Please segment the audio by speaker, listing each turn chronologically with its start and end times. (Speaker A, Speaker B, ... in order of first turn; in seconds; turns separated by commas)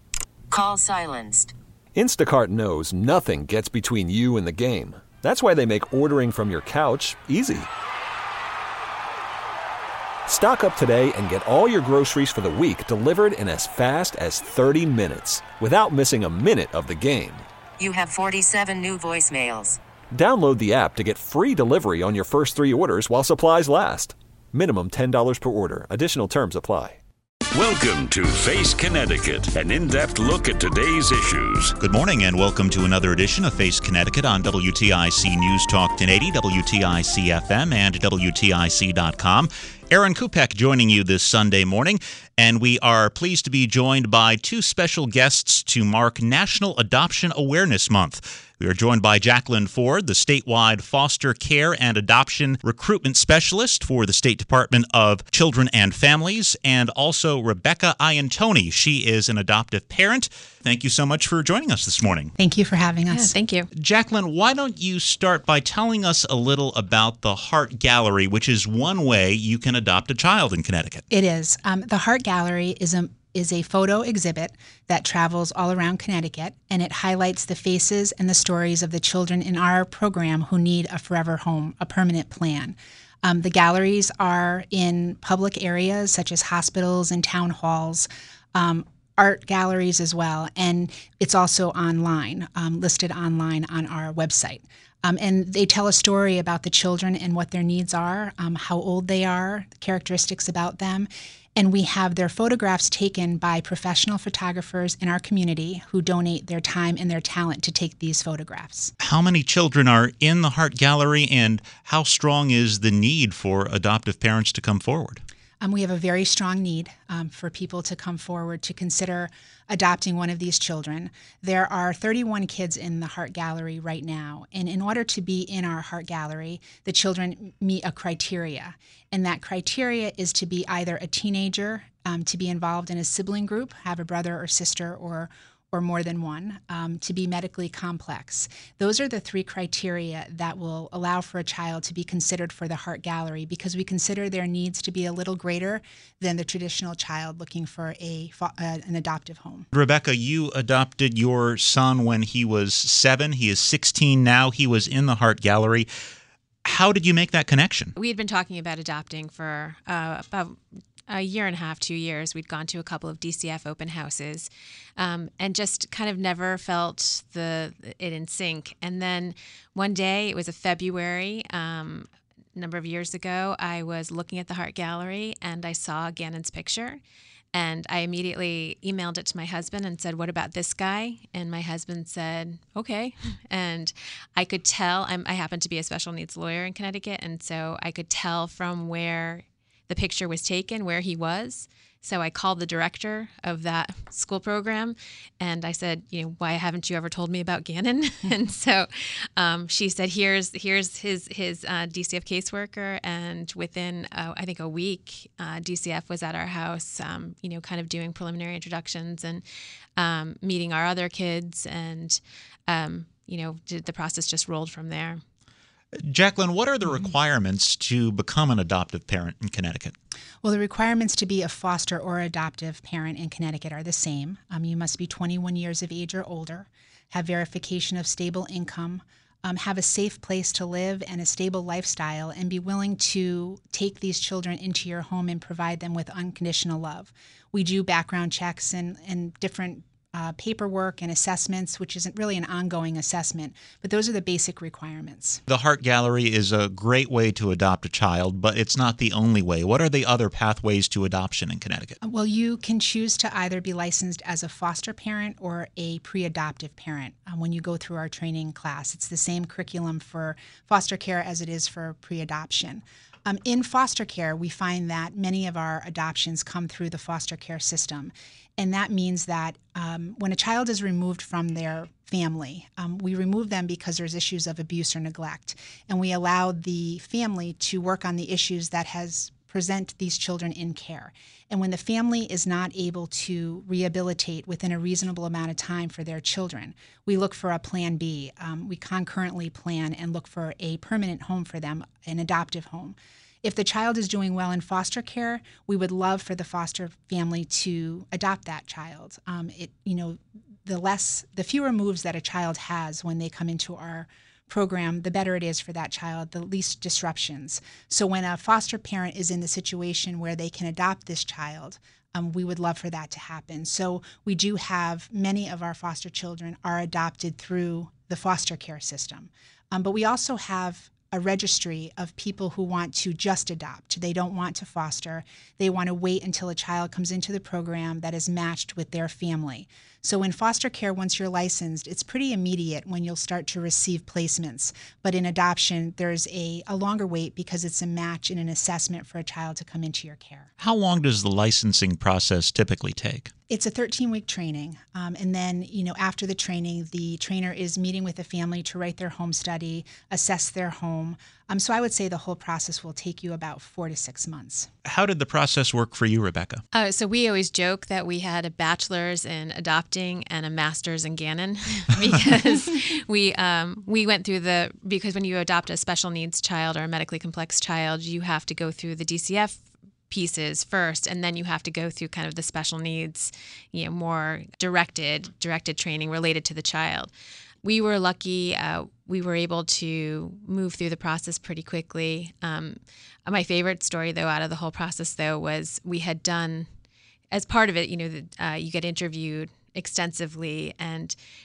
Speaker A: 0.5-1.5, Speaker B: 1.9-7.7, Speaker B: 10.3-17.5, Speaker A: 17.8-19.8, Speaker B: 20.1-27.0, Speaker C: 27.5-31.8, Speaker D: 31.8-62.3, Speaker E: 62.4-63.4, Speaker F: 63.1-63.7, Speaker D: 63.8-71.0, Speaker E: 71.1-108.9, Speaker D: 109.0-115.2, Speaker E: 115.6-149.7, Speaker D: 149.7-155.9, Speaker D: 156.6-157.9, Speaker F: 158.0-177.0, Speaker F: 177.5-209.4, Speaker F: 210.0-215.2, Speaker D: 216.0-219.9, Speaker E: 220.4-245.4, Speaker D: 245.5-252.0, Speaker E: 252.0-340.5, Speaker D: 340.6-343.3, Speaker E: 343.5-354.7, Speaker D: 354.9-356.6, Speaker F: 356.7-377.1, Speaker F: 377.6-386.7, Speaker F: 387.3-391.2